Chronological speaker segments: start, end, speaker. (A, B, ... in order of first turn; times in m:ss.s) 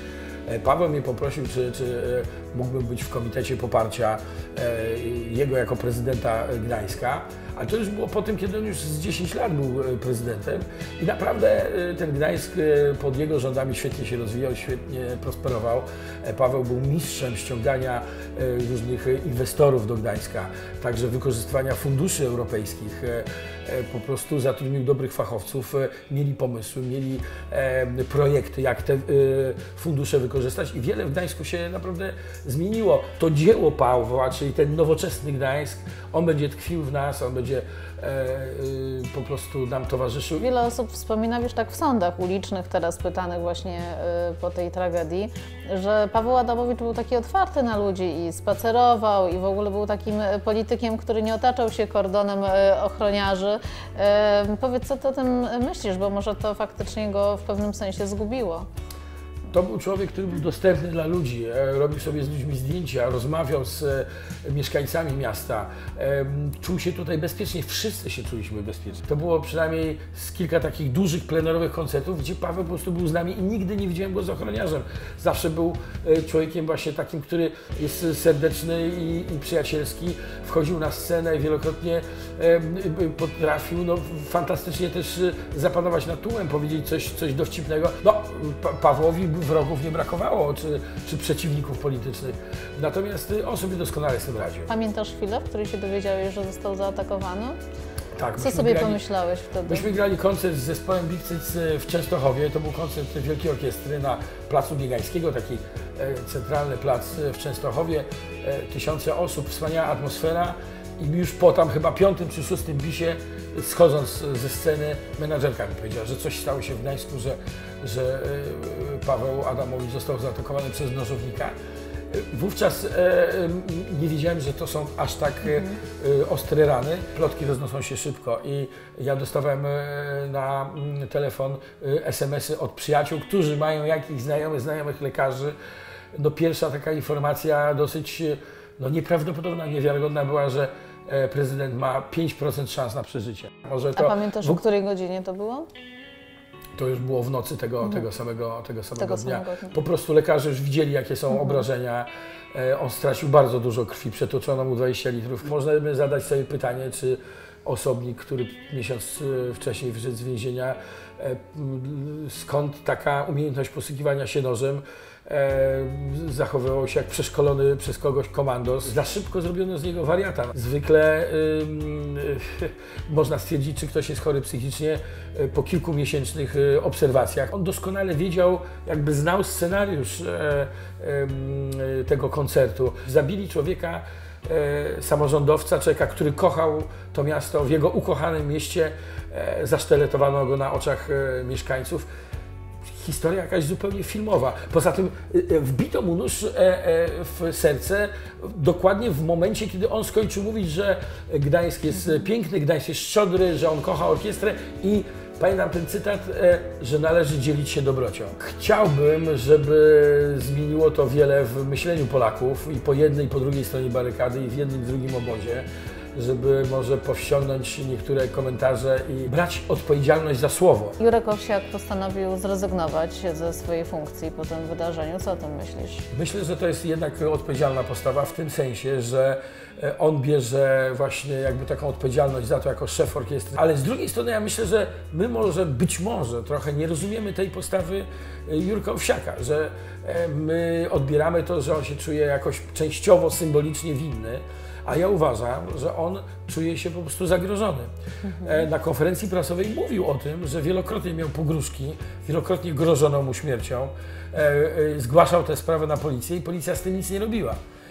0:00.4-0:40.4 A
0:40.4-0:58.7 B
0:59.5-1:34.7 A
1:34.7-1:37.6 B
1:38.2-1:39.0 A
1:38.4-1:39.9 B
1:39.6-2:01.5 A
2:02.1-2:15.5 A
2:05.4-2:05.8 B
2:16.1-2:24.6 A
2:24.0-2:25.7 B
2:26.8-3:12.1 A
2:29.0-2:29.8 B
2:31.3-2:31.6 B
3:12.9-3:41.0 A
3:41.0-3:46.1 B
3:46.1-4:17.6 A
4:08.3-4:08.6 B